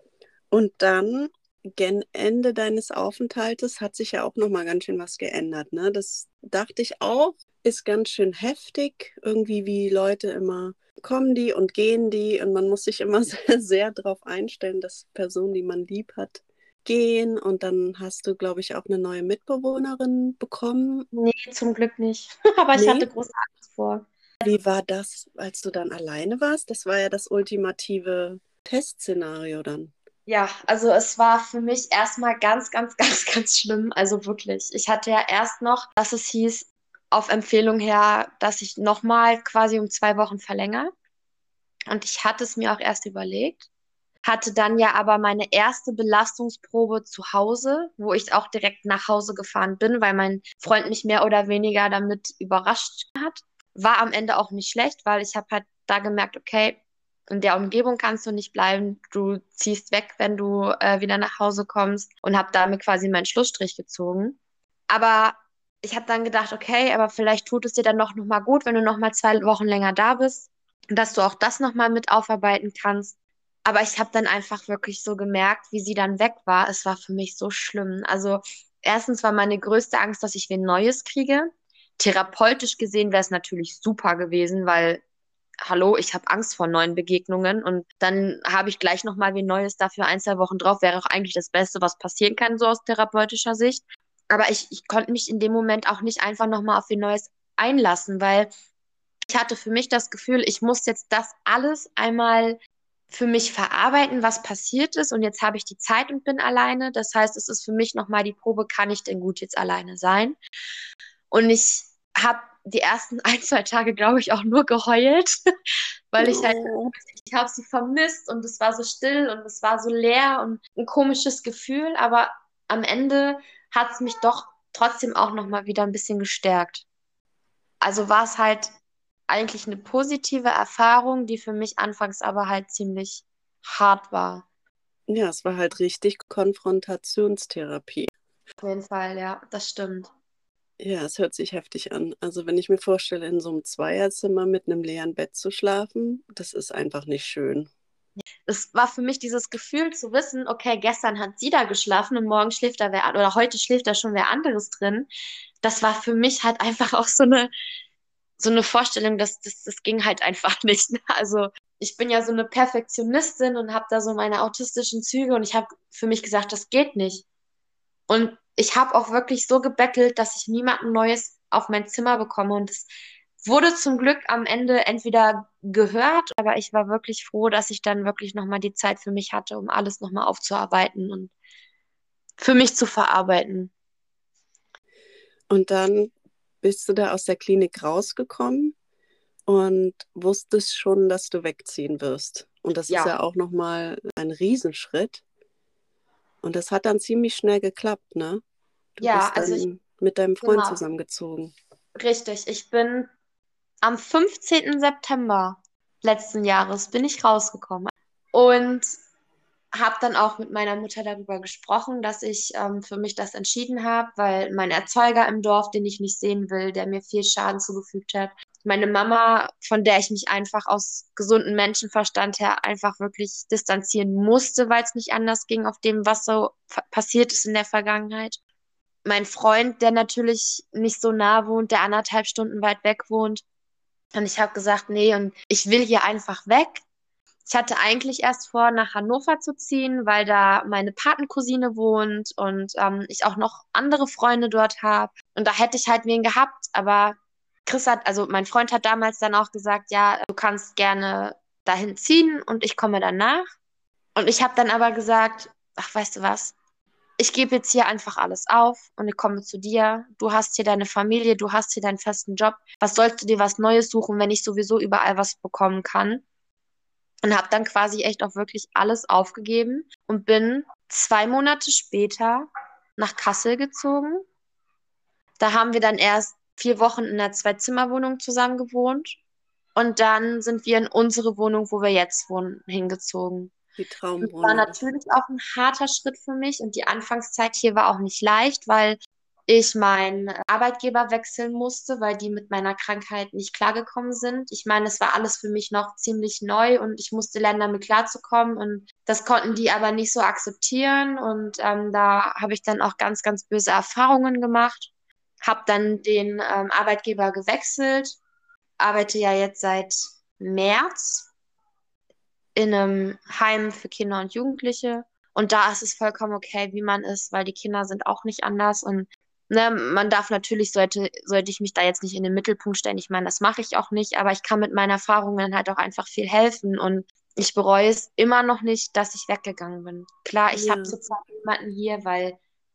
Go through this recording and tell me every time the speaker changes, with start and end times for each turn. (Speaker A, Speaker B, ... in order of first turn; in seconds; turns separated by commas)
Speaker A: 0.5-21.1, Speaker B: 21.1-24.1, Speaker A: 22.8-23.1, Speaker A: 24.4-29.9, Speaker B: 30.3-40.9, Speaker B: 41.9-43.7, Speaker B: 44.2-64.4, Speaker B: 64.9-85.0, Speaker B: 85.7-98.5, Speaker B: 99.3-102.6, Speaker B: 103.1-110.4, Speaker B: 111.3-115.4, Speaker B: 116.1-126.9, Speaker A: 116.2-117.0, Speaker B: 127.8-128.7, Speaker B: 129.3-134.5, Speaker A: 135.1-138.1, Speaker B: 138.6-140.1, Speaker A: 140.8-147.7, Speaker B: 148.5-155.1, Speaker B: 155.6-157.5, Speaker B: 158.4-167.2, Speaker B: 168.1-172.9, Speaker B: 173.4-181.3, Speaker B: 182.4-183.7, Speaker A: 185.5-186.1, Speaker A: 186.6-188.8, Speaker A: 189.5-195.2, Speaker B: 192.9-193.2, Speaker A: 196.4-198.4, Speaker A: 199.0-201.5, Speaker B: 199.0-199.7, Speaker B: 200.4-200.8, Speaker B: 201.9-203.1, Speaker B: 203.8-208.9, Speaker B: 209.7-228.4, Speaker B: 229.1-233.4, Speaker B: 234.1-236.8, Speaker B: 237.5-253.5, Speaker B: 254.2-256.6, Speaker B: 257.2-266.2, Speaker B: 267.2-274.2, Speaker B: 275.4-279.2, Speaker B: 279.8-283.5, Speaker A: 283.8-284.8, Speaker B: 284.2-304.9, Speaker B: 305.4-308.2, Speaker B: 308.8-311.3, Speaker B: 312.6-332.4, Speaker A: 330.5-331.0